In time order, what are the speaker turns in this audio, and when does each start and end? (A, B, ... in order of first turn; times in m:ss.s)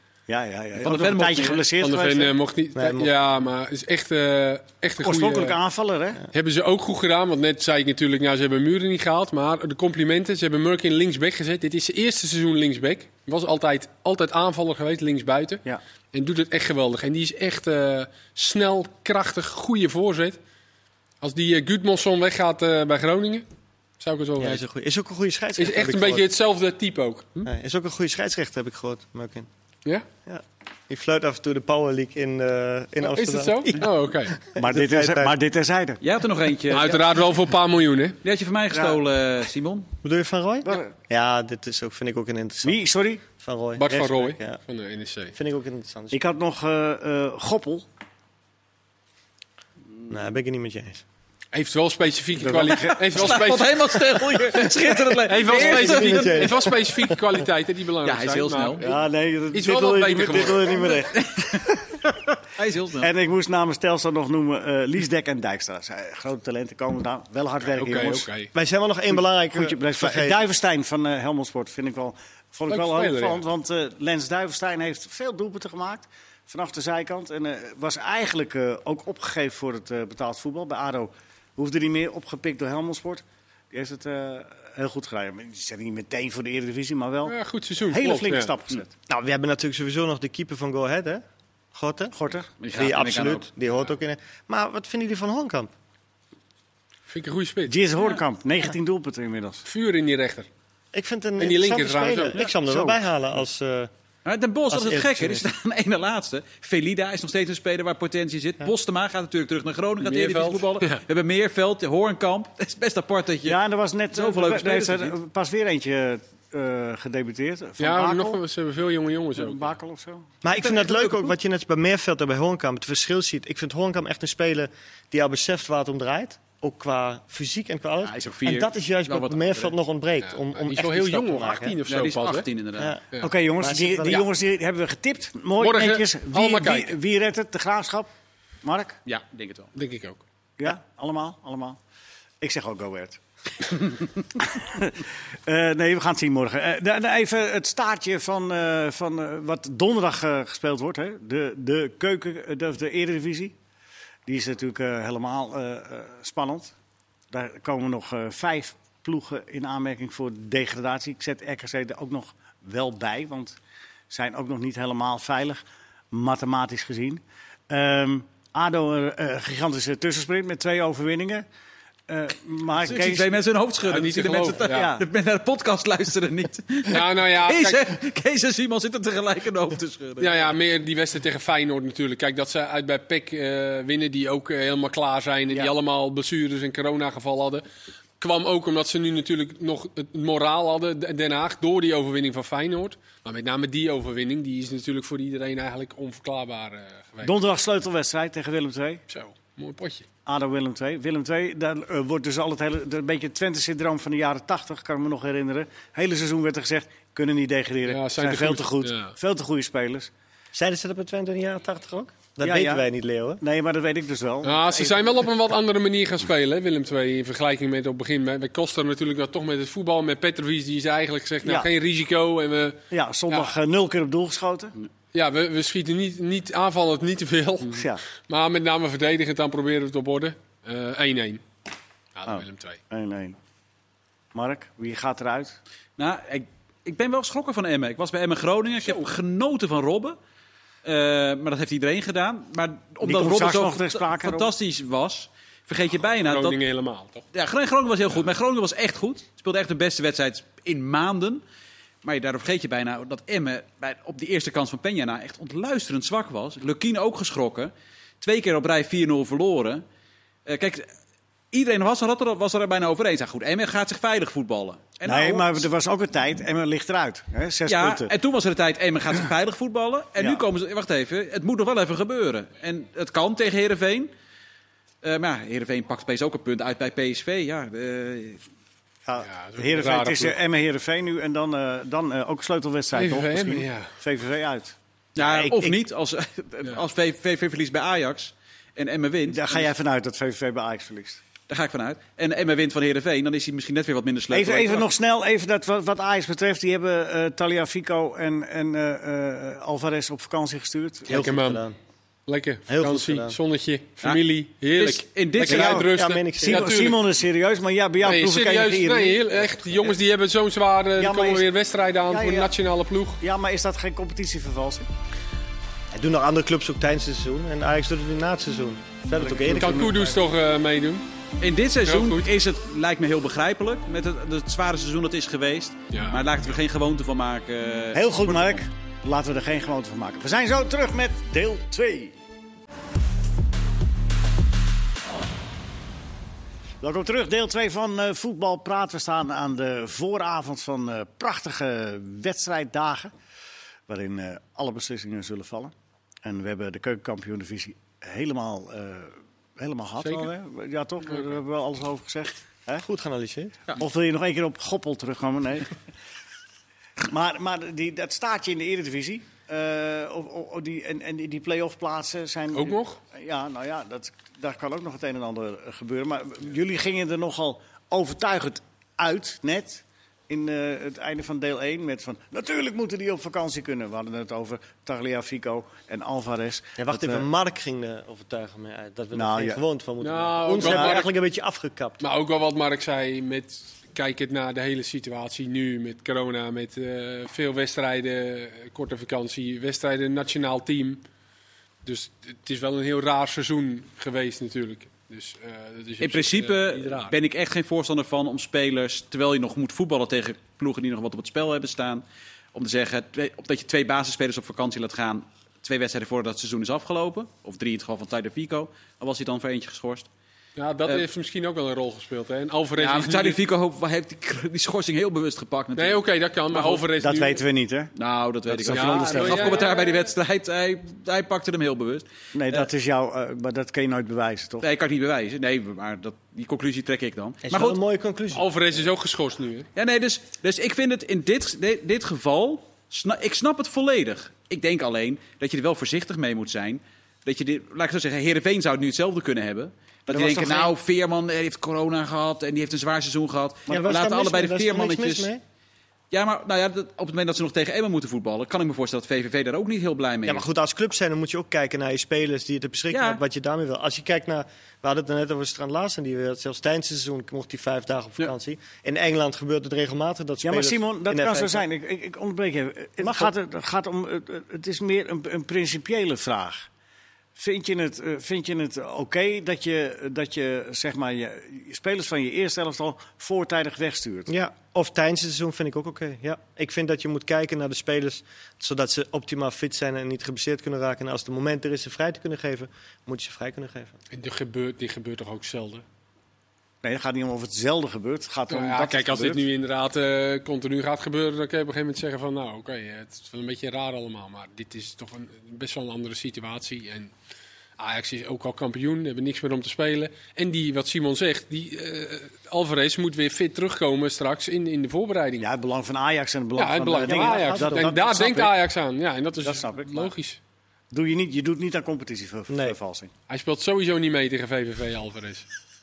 0:00.3-0:02.3 A
0:00.8-0:01.6 B
0:01.8-0:05.6 C
0:02.7-0:03.1 D
0:05.0-0:06.2 A
0:06.3-0:20.4 C
0:21.2-0:23.4 C
0:24.0-0:24.6 C
0:24.4-0:26.3 D
0:25.6-0:27.3 C
0:27.4-0:29.5 D
0:30.2-0:35.3 D
0:33.0-0:34.4 C
0:34.6-0:36.0 A
0:36.0-0:37.2 B
0:36.7-0:38.2 C
0:38.2-0:39.9 B
0:38.7-0:39.0 A
0:40.0-0:44.6 D
0:40.6-0:40.9 A
0:42.6-0:43.2 A
0:43.8-0:45.4 C
0:45.3-0:46.2 D
0:46.1-0:47.8 A
0:50.1-0:51.0 D
0:51.5-0:58.9 C
0:52.4-0:53.1 A
0:52.7-0:56.6 B
0:55.5-0:57.3 D
0:58.0-0:58.9 B
0:58.8-1:01.8 A
0:59.5-1:01.0 C
1:01.0-1:01.8 B
1:02.5-1:03.1 B
1:03.0-1:08.3 A
1:07.6-1:08.5 C
1:08.5-1:10.4 D
1:09.5-1:27.4 A
1:12.7-1:13.4 C
1:27.2-1:28.5 C
1:27.9-1:28.9 A
1:29.1-1:31.2 D
1:31.7-1:32.1 D
1:32.1-1:32.5 A
1:32.6-1:33.5 B
1:32.7-1:35.7 D
1:37.1-1:37.8 C
1:37.7-1:39.6 A
1:39.6-1:40.5 C
1:40.9-1:43.9 D
1:41.4-1:42.4 C
1:42.6-1:43.0 A
1:44.2-1:53.6 B
1:44.7-1:45.4 D
1:50.0-1:51.0 C
1:53.4-1:58.4 A
1:54.1-1:55.2 B
1:57.8-1:59.8 C
1:59.4-2:00.3 A
2:00.4-2:11.8 D
2:00.5-2:01.3 B
2:08.0-2:09.7 B
2:10.2-2:12.5 C
2:11.9-2:13.0 B
2:12.8-2:13.0 D
2:13.2-2:18.1 A
2:13.6-2:14.3 D
2:15.6-2:17.0 C
2:18.6-2:19.0 A
2:19.0-2:19.7 B
2:19.7-2:20.2 C
2:20.6-2:21.8 A
2:22.4-2:33.5 A
2:34.2-2:36.7 A
2:37.3-2:43.6 A
2:44.1-2:51.4 A
2:52.1-2:53.4 A
2:52.8-3:00.5 B
2:53.9-2:54.9 C
2:54.7-2:55.0 A
2:56.9-2:57.9 C
3:00.2-3:07.6 C
3:08.2-3:17.3 C
3:17.2-3:19.0 A
3:19.1-3:20.0 C
3:20.2-3:30.1 A
3:27.8-3:29.2 C
3:30.5-3:33.4 D
3:32.4-3:32.8 A
3:33.4-3:35.0 A
3:34.4-3:43.5 C
3:41.4-3:41.7 A
3:42.9-3:44.7 A
3:45.1-3:51.4 C
3:47.6-3:48.0 A
3:52.2-3:52.8 C
3:52.3-3:53.4 A
3:54.3-3:55.6 A
3:56.0-4:00.2 B
4:00.8-4:06.6 B
4:03.0-4:04.5 A
4:06.2-4:07.2 C
4:07.3-4:11.4 B
4:12.0-4:19.8 B
4:20.4-4:20.9 B
4:21.5-4:25.7 B
4:25.0-4:28.1 A
4:27.6-4:34.1 B
4:30.2-4:30.4 A
4:35.0-4:38.4 B
4:39.0-4:44.7 A
4:39.2-4:40.4 C
4:42.9-4:43.9 C
4:45.2-4:49.7 B
4:45.2-4:45.8 D
4:49.3-4:51.2 A
4:51.5-4:54.9 B
4:54.3-5:01.2 A
5:01.1-5:01.7 D
5:01.1-5:01.6 C
5:02.3-5:07.0 C
5:02.7-5:03.4 D
5:04.8-5:05.9 B
5:05.4-5:06.8 D
5:05.4-5:05.9 A
5:06.4-5:09.9 A
5:08.0-5:13.2 C
5:11.0-5:11.5 A
5:12.1-5:12.5 A
5:13.2-5:14.9 A
5:15.9-5:20.0 D
5:19.2-5:20.1 A
5:19.5-5:21.0 C
5:21.4-5:28.6 B
5:21.8-5:22.3 C
5:25.9-5:26.2 C
5:27.9-5:32.2 A
5:36.8-5:43.1 A
5:43.9-5:45.7 A
5:46.2-5:52.8 A
5:50.0-5:50.3 C
5:52.8-5:53.6 D
5:53.7-5:55.8 A
5:57.0-6:17.2 A
6:02.5-6:03.0 C
6:16.8-6:22.0 D
6:19.1-6:19.6 A
6:20.0-6:21.1 C
6:20.6-6:21.0 A
6:22.0-6:31.0 C
6:31.8-6:37.1 C
6:36.0-6:50.1 B
6:50.6-6:53.4 C
6:52.8-6:56.0 B
6:55.7-6:57.4 C
6:56.5-6:56.8 B
6:57.0-6:57.9 A
6:58.0-7:02.7 B
6:58.5-6:59.6 A
6:58.7-7:00.1 C
7:02.3-7:04.7 A
7:04.6-7:07.8 B
7:07.4-7:08.5 D
7:08.3-7:09.7 C
7:09.7-7:25.3 B
7:20.1-7:20.7 A
7:20.2-7:20.5 D
7:23.7-7:23.9 A
7:23.7-7:25.4 D
7:26.1-7:30.4 B
7:30.2-7:41.6 D
7:32.9-7:33.2 B
7:40.4-7:46.7 A
7:43.0-7:43.3 D
7:47.4-7:54.3 A
7:54.3-8:04.0 D
8:04.1-8:05.8 C
8:06.8-8:09.4 A
8:08.5-8:17.1 C
8:17.8-8:25.5 C
8:25.4-8:28.5 A
8:26.6-8:30.4 C
8:27.0-8:27.9 D
8:29.4-8:30.1 A
8:30.9-8:33.1 A
8:32.5-8:32.8 D
8:33.3-8:35.5 C